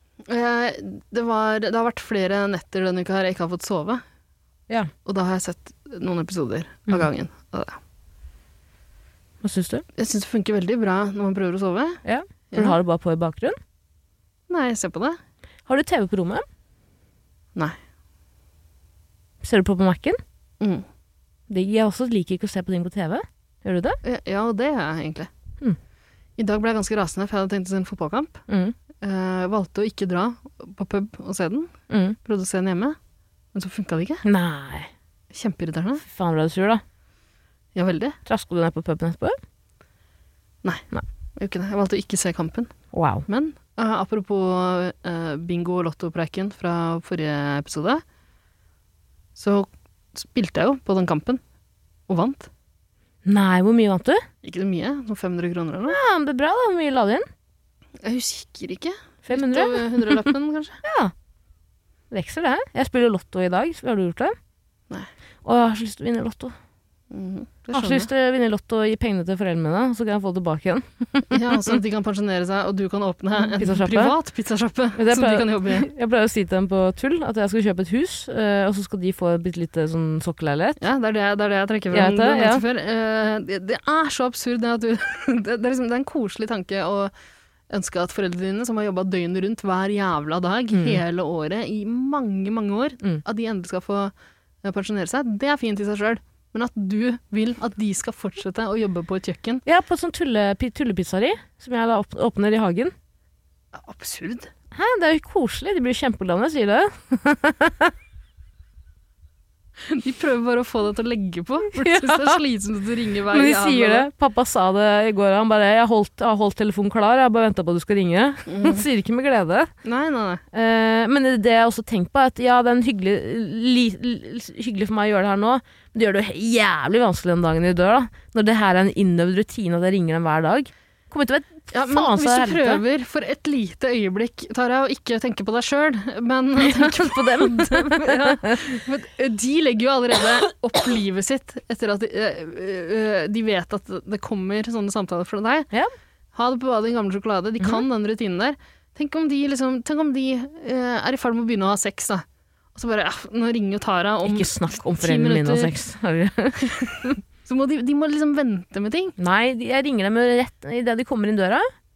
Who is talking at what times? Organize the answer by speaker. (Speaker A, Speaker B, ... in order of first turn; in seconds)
Speaker A: 0.2-4.0, 5.0-7.8, 9.9-12.0, 12.5-12.8, 14.5-15.2, 20.6-20.9, 24.0-25.3, 26.4-28.4, 29.0-31.7, 32.2-33.0, 33.5-34.2, 35.3-36.0, 37.7-38.2, 41.4-42.7, 43.3-48.0, 49.4-51.4, 52.1-52.5, 54.4-56.0, 58.0-60.8, 67.1-68.1, 71.3-75.9, 80.8-87.1, 87.7-99.6, 103.7-104.5, 109.8-114.1, 118.5-118.8, 119.8-120.4, 131.7-145.7, 146.3-155.7, 156.6-159.1
Speaker B: 9.4-9.8, 12.0-13.6, 15.7-16.4, 19.4-20.2, 21.5-24.0, 28.5-28.7, 31.9-32.2, 34.2-34.9, 36.0-36.8, 38.2-39.4, 42.9-43.3, 53.2-54.2, 55.9-57.2, 59.2-60.3, 60.8-61.1, 62.1-64.3, 65.4-66.5, 67.7-71.8, 73.4-74.1, 75.0-80.8, 81.9-82.6, 90.7-91.0, 99.6-102.9, 104.7-107.9, 111.7-112.4, 113.3-119.7, 120.5-132.8, 136.6-138.8, 154.2-157.2, 159.2-161.7